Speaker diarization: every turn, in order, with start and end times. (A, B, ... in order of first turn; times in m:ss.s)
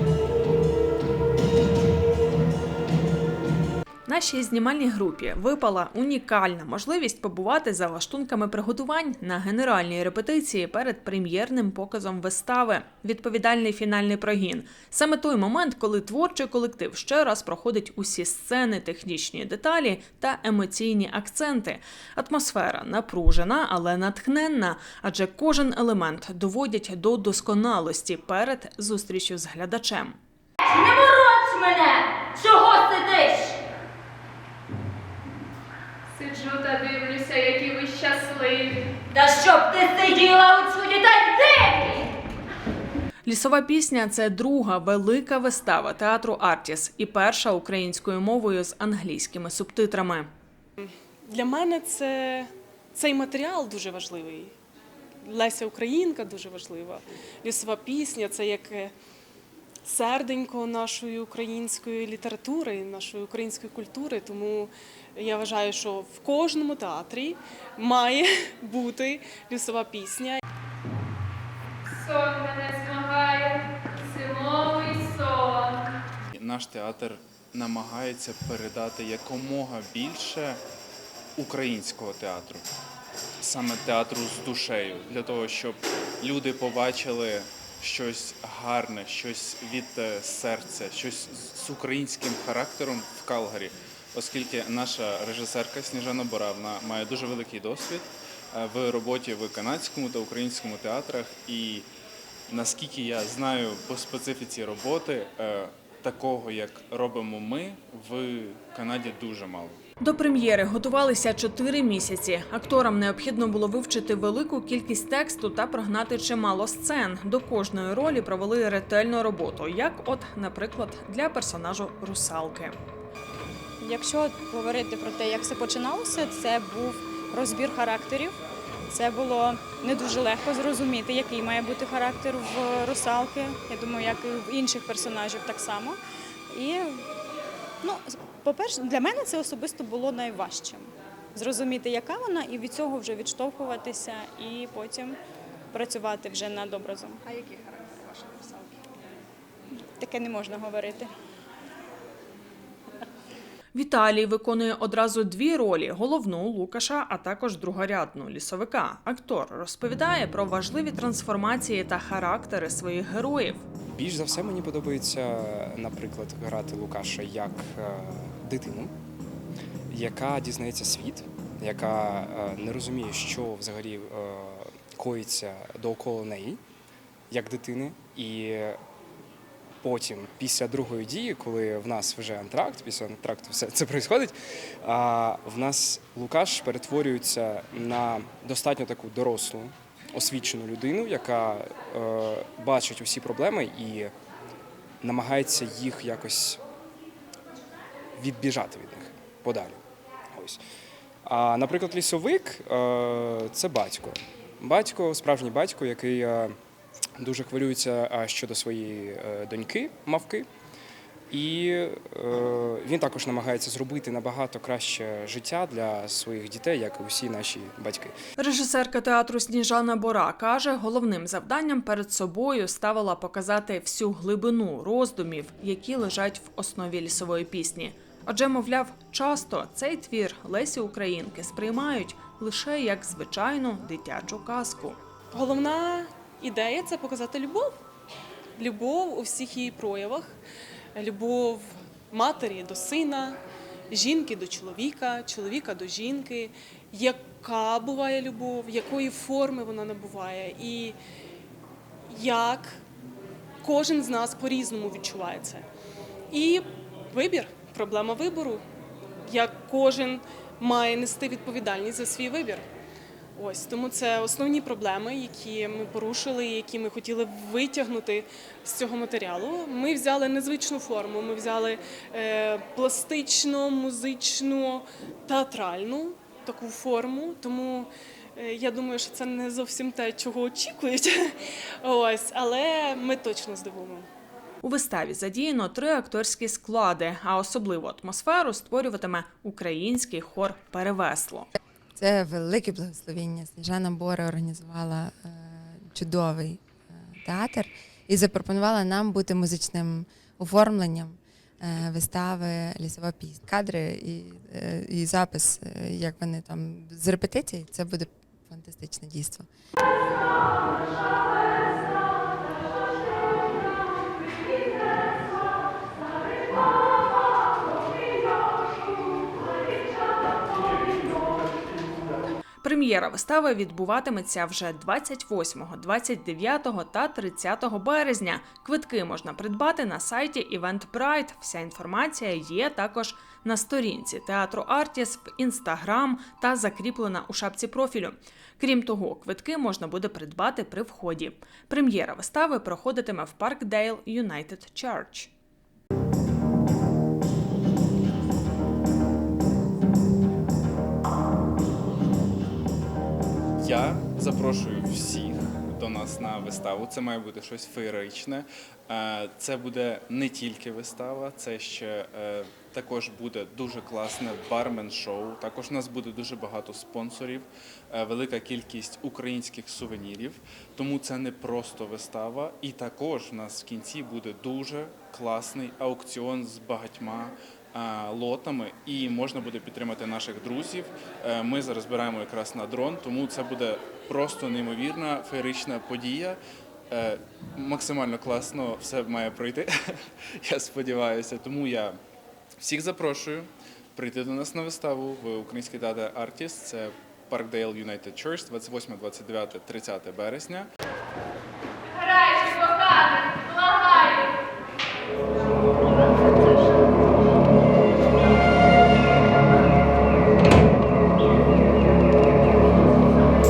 0:04.1-0:30.2 A
0:30.6-0:33.6 B
0:36.1-0:39.0 C
0:39.1-0:42.1 B
0:43.2-0:50.3 A
0:50.8-0:54.5 D
0:55.2-0:58.9 D
0:59.8-1:10.4 D
1:11.9-1:15.8 C
1:16.3-1:20.6 E
1:21.4-1:22.6 E
1:23.4-1:41.9 E
1:42.5-1:49.8 E
1:50.0-2:02.8 A
2:03.8-2:08.3 F
2:08.9-2:16.0 F
2:16.5-2:17.0 F
2:17.8-2:25.2 F
2:25.7-2:28.5 F
2:30.0-2:31.1 F
2:33.7-2:43.6 A
2:43.9-2:48.9 G
2:49.9-2:56.6 G
2:57.3-2:58.8 G
2:59.8-3:14.1 G
3:15.0-3:16.6 G
3:18.2-3:19.8 G
3:20.3-3:20.6 G
3:21.2-3:26.5 G
3:27.2-3:30.5 G
3:31.3-3:38.1 G
3:38.4-3:55.0 A
3:55.3-3:57.8 D
3:58.6-4:00.3 D
4:00.9-4:03.4 D
4:03.9-4:11.0 D
4:12.1-4:12.8 D
4:13.6-4:15.6 D
4:16.3-4:18.6 D
4:19.2-4:22.6 D
4:23.3-4:44.1 D
4:44.6-4:51.5 A
4:52.0-5:09.5 H
5:22.6-5:45.3 A
5:53.6-6:26.4 E
6:26.9-6:32.0 E
6:32.6-6:40.7 E
6:42.4-6:43.4 C